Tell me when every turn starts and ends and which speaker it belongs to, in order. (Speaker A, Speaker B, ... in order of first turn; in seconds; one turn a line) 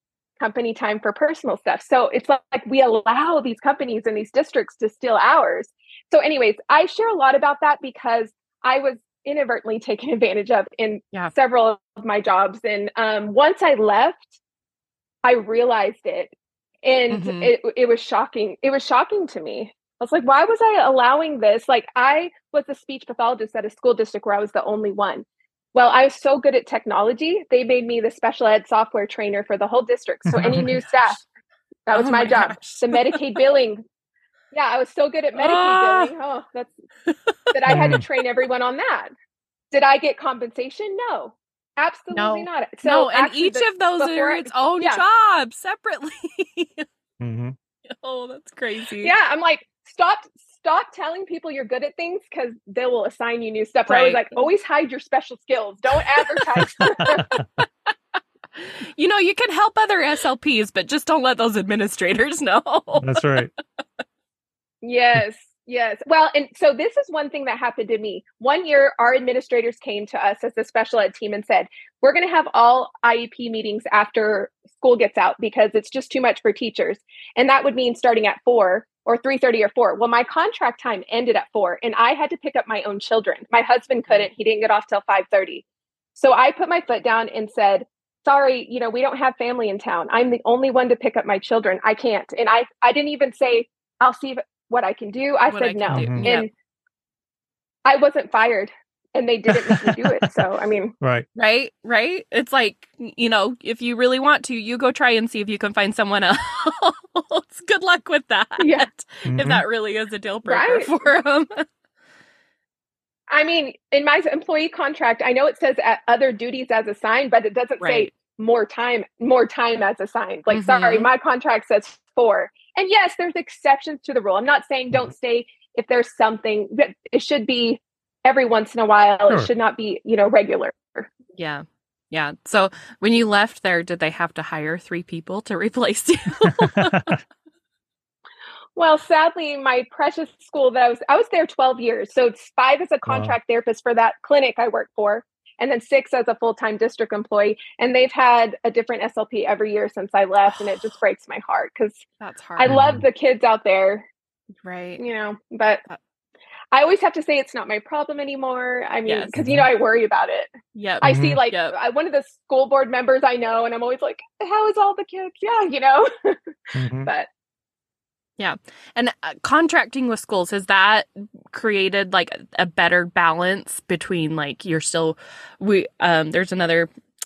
Speaker A: 0.4-14.3
Speaker A: 15.2-16.3
Speaker A: 16.8-31.2
Speaker B: 17.1-17.5
Speaker C: 30.3-30.7
Speaker B: 30.5-30.8
Speaker A: 31.9-33.8
Speaker B: 31.9-33.2
Speaker A: 34.5-36.7
Speaker B: 35.4-36.1
Speaker B: 37.1-38.0
Speaker A: 37.5-39.1
Speaker C: 37.7-38.0
Speaker A: 39.7-45.0
Speaker B: 42.1-46.9
Speaker C: 47.2-47.5
Speaker B: 47.9-49.1
Speaker A: 49.0-57.4
Speaker B: 53.9-54.4
Speaker B: 56.2-56.5
Speaker C: 56.6-57.3
Speaker B: 58.6-63.4
Speaker C: 63.0-63.5
Speaker A: 64.8-85.6
Speaker A: 86.1-96.5
Speaker B: 95.5-96.5
Speaker C: 95.9-96.3
Speaker A: 97.8-100.9
Speaker C: 99.5-100.3
Speaker C: 101.0-101.2
Speaker B: 101.3-111.5
Speaker A: 108.6-108.9
Speaker C: 109.2-109.6
Speaker A: 110.5-110.9
Speaker A: 113.3-131.1
Speaker B: 117.8-118.1
Speaker B: 120.5-121.1
Speaker B: 131.4-137.1
Speaker C: 136.8-137.2
Speaker A: 138.8-152.0
Speaker C: 143.1-143.3
Speaker B: 152.2-152.8
Speaker A: 152.6-154.1
Speaker C: 152.7-153.0
Speaker B: 154.6-155.0
Speaker A: 155.0-155.8
Speaker A: 156.7-167.3
Speaker B: 159.1-159.4
Speaker C: 159.4-159.7
Speaker B: 160.7-161.7
Speaker C: 161.0-161.4
Speaker C: 166.7-167.1
Speaker B: 168.4-176.9